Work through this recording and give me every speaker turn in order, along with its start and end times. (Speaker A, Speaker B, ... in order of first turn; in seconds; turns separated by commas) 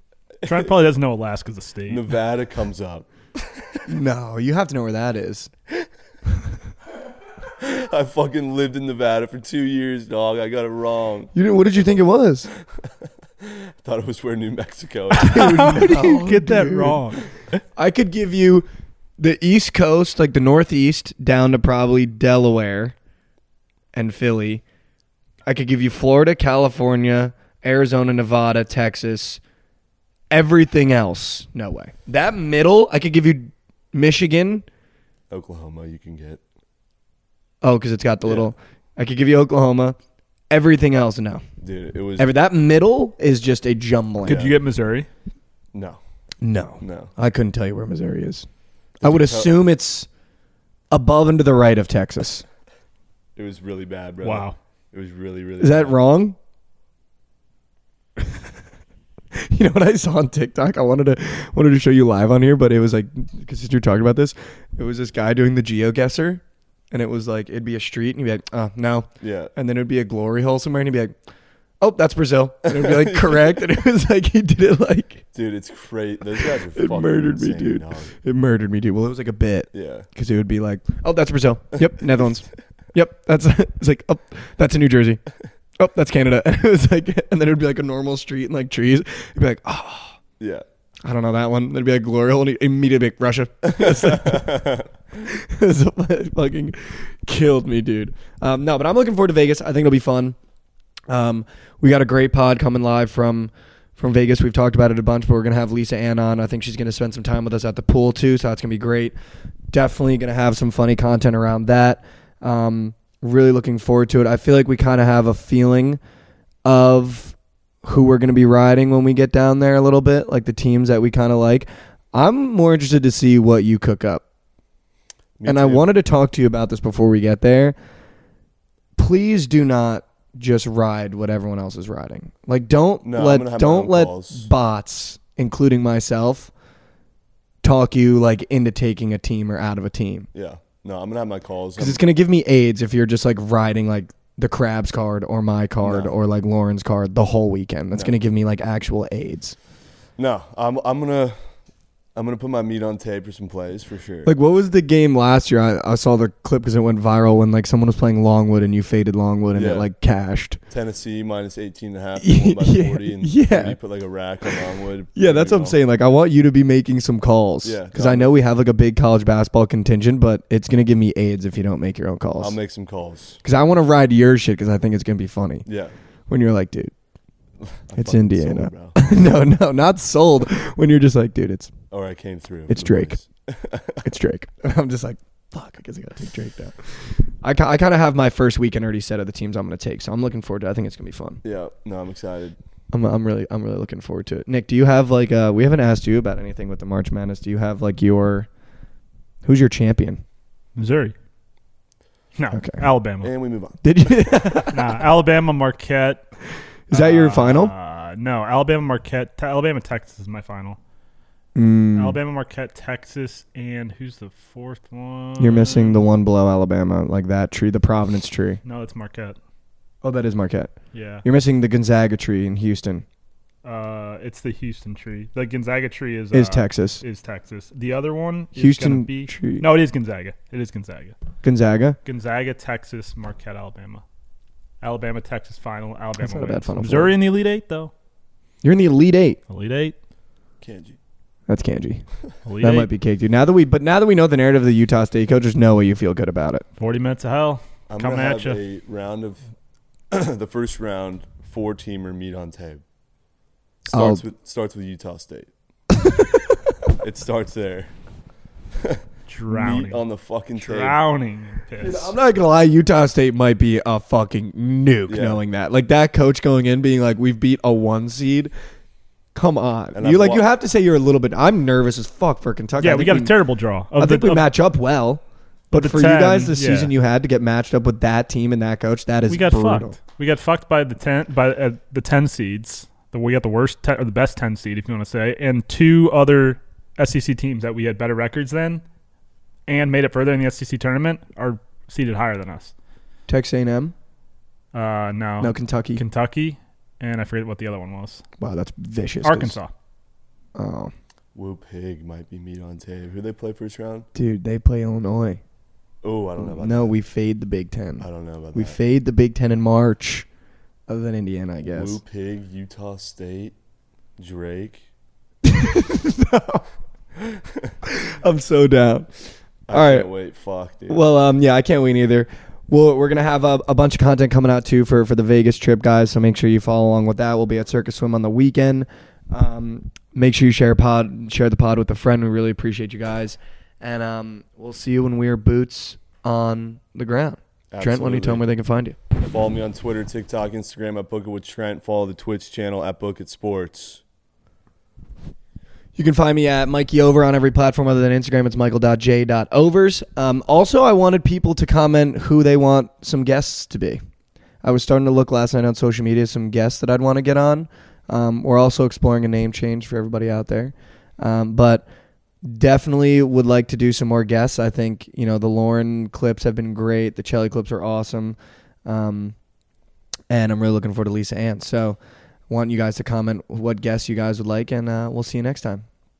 Speaker A: 0.4-0.7, Speaker B: 0.4-2.0, Speaker A: 1.9-3.8, Speaker C: 3.9-5.5, Speaker A: 7.4-11.3, Speaker C: 11.3-12.5, Speaker A: 12.6-16.0, Speaker B: 15.1-17.2, Speaker C: 15.2-17.0, Speaker C: 17.8-18.6, Speaker C: 19.2-22.9, Speaker C: 23.9-24.6, Speaker C: 25.4-29.4, Speaker C: 30.3-34.6, Speaker A: 35.3-36.4, Speaker C: 37.6-40.0, Speaker A: 38.2-38.5, Speaker C: 40.5-41.4, Speaker A: 41.6-42.3, Speaker C: 42.2-44.5, Speaker B: 44.2-45.1, Speaker A: 44.2-44.6, Speaker A: 45.7-46.0, Speaker C: 46.4-48.5, Speaker A: 46.8-47.1, Speaker A: 49.0-49.6, Speaker C: 49.0-50.1, Speaker C: 50.9-52.5, Speaker A: 53.4-56.0, Speaker B: 54.2-54.5, Speaker C: 55.6-56.4, Speaker C: 59.3-71.1, Speaker A: 69.2-69.5, Speaker C: 71.8-75.2, Speaker A: 72.7-73.6, Speaker A: 75.3-78.1, Speaker C: 76.4-85.2, Speaker A: 79.7-80.1, Speaker C: 85.8-90.2, Speaker A: 90.4-90.6, Speaker C: 91.0-100.4, Speaker A: 93.7-94.9, Speaker C: 101.1-109.1, Speaker C: 109.7-116.0, Speaker C: 116.6-124.2, Speaker A: 125.4-125.9, Speaker C: 125.4-127.8, Speaker C: 129.0-136.5, Speaker A: 133.0-134.5, Speaker C: 137.6-140.3, Speaker A: 140.3-142.0, Speaker C: 141.8-149.6, Speaker A: 145.8-146.1, Speaker A: 150.2-151.3, Speaker A: 152.1-154.3, Speaker C: 154.2-160.6, Speaker A: 159.5-159.9, Speaker A: 160.7-165.8, Speaker C: 162.2-163.8, Speaker C: 165.1-172.6, Speaker A: 167.6-168.4, Speaker A: 172.4-173.4, Speaker C: 173.4-175.7, Speaker A: 175.7-175.9, Speaker C: 176.3-176.9, Speaker A: 177.6-178.9, Speaker C: 177.9-181.7, Speaker A: 181.9-184.1, Speaker C: 182.7-183.2, Speaker C: 184.0-191.4, Speaker A: 191.4-192.6, Speaker C: 192.9-198.5, Speaker C: 199.4-200.2, Speaker B: 200.8-201.1, Speaker B: 202.3-203.3, Speaker C: 202.5-202.8, Speaker A: 203.2-204.3, Speaker C: 203.8-204.9, Speaker B: 204.7-206.2, Speaker C: 206.9-207.7, Speaker B: 206.9-210.8, Speaker C: 211.5-212.2, Speaker B: 211.9-216.0, Speaker C: 215.4-218.6, Speaker B: 218.6-219.4, Speaker C: 220.0-220.7, Speaker B: 220.9-221.2, Speaker C: 221.2-223.0, Speaker B: 223.6-231.2, Speaker C: 226.3-227.0, Speaker C: 228.6-229.6, Speaker C: 231.4-232.0, Speaker B: 232.0-234.0, Speaker B: 234.8-237.9, Speaker C: 236.2-237.1, Speaker C: 238.6-239.4, Speaker B: 239.5-239.9, Speaker A: 240.6-241.0, Speaker C: 241.5-242.0, Speaker B: 242.4-242.9, Speaker C: 242.6-246.7, Speaker B: 246.8-248.6, Speaker A: 247.9-249.4, Speaker A: 250.1-252.8, Speaker A: 253.8-255.5, Speaker C: 253.9-254.2, Speaker C: 255.9-256.6, Speaker A: 257.0-257.9, Speaker A: 258.8-261.0, Speaker B: 259.3-260.0, Speaker B: 260.6-262.1, Speaker C: 261.8-268.5, Speaker A: 265.1-265.4, Speaker C: 269.3-273.3, Speaker A: 269.9-270.4, Speaker B: 272.8-274.5, Speaker C: 273.9-279.9, Speaker B: 275.7-276.9, Speaker B: 279.3-288.8, Speaker B: 289.7-292.7, Speaker C: 293.3-293.9, Speaker B: 294.7-298.2, Speaker C: 295.4-296.0, Speaker C: 298.4-299.6, Speaker B: 299.2-299.7, Speaker C: 300.5-300.9, Speaker A: 301.3-304.1, Speaker C: 304.1-305.4, Speaker A: 306.0-306.9, Speaker C: 306.4-310.2, Speaker A: 308.0-308.8, Speaker C: 310.9-312.0, Speaker A: 311.6-313.5, Speaker A: 314.2-314.8, Speaker C: 315.4-316.6, Speaker A: 317.2-317.7, Speaker C: 317.8-320.1, Speaker A: 319.7-321.0, Speaker C: 320.9-339.0, Speaker A: 337.7-338.4, Speaker A: 339.2-344.0, Speaker C: 345.9-354.0, Speaker C: 354.6-361.8, Speaker C: 362.4-369.4, Speaker C: 370.3-372.0, Speaker C: 372.5-375.9